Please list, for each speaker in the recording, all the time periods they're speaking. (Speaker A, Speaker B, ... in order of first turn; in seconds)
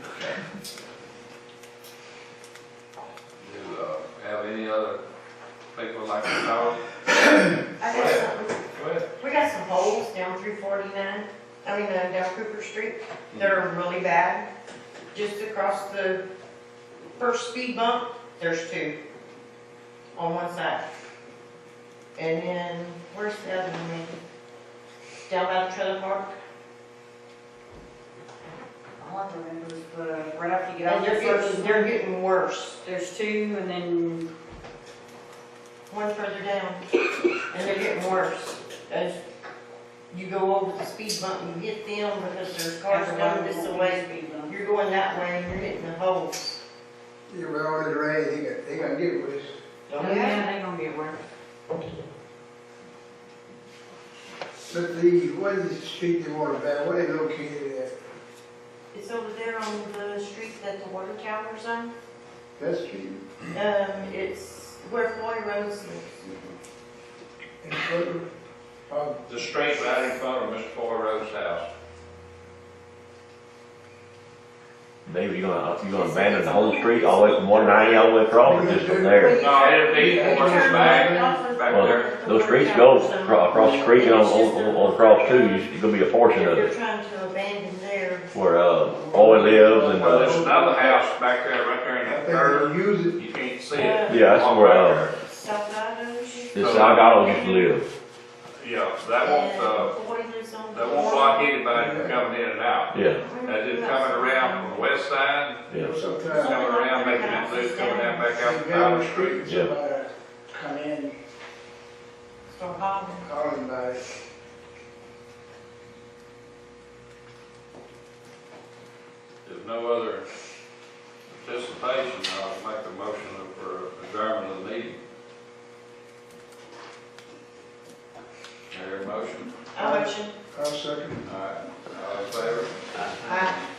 Speaker A: 0.1-0.4, 3.4-5.0, 5.7-7.0, 7.8-9.1, 13.3-13.6, 69.3-71.7, 79.4-82.1, 89.9-95.1, 96.6-97.1, 98.6-99.9, 100.7-105.6, 106.3-109.4, 119.4-120.2, 121.3-125.0, 128.7-129.5, 131.2-132.8
Speaker B: 7.8-8.6, 9.2-14.5, 15.1-16.2, 17.1-19.0, 20.1-20.9, 22.1-24.2, 25.2-26.3, 30.8-32.8, 35.9-36.8, 37.5-39.2, 40.1-46.6, 49.9-50.4, 58.9-61.9, 63.5-66.4, 75.9-78.3, 79.1-85.7, 86.3-88.3, 93.7-96.5, 97.1-97.7, 99.2-101.5, 103.0-104.9, 106.2-108.3, 112.5-113.2, 129.7-130.3, 133.2-133.6
Speaker C: 29.0-31.9, 32.8-34.3, 42.9-44.5, 49.9-51.2
Speaker D: 47.3-49.5, 54.7-57.9, 62.6-63.4, 67.6-68.3, 68.9-69.2, 78.4-81.4, 83.4-84.1, 88.9-91.0, 92.0-93.2, 101.7-102.2, 105.8-106.6, 108.4-111.2, 113.2-114.0, 129.8-131.3
Speaker E: 75.0-79.4, 81.7-86.7, 88.3-90.3, 94.1-95.0, 96.5-97.8, 102.9-103.2, 109.4-109.7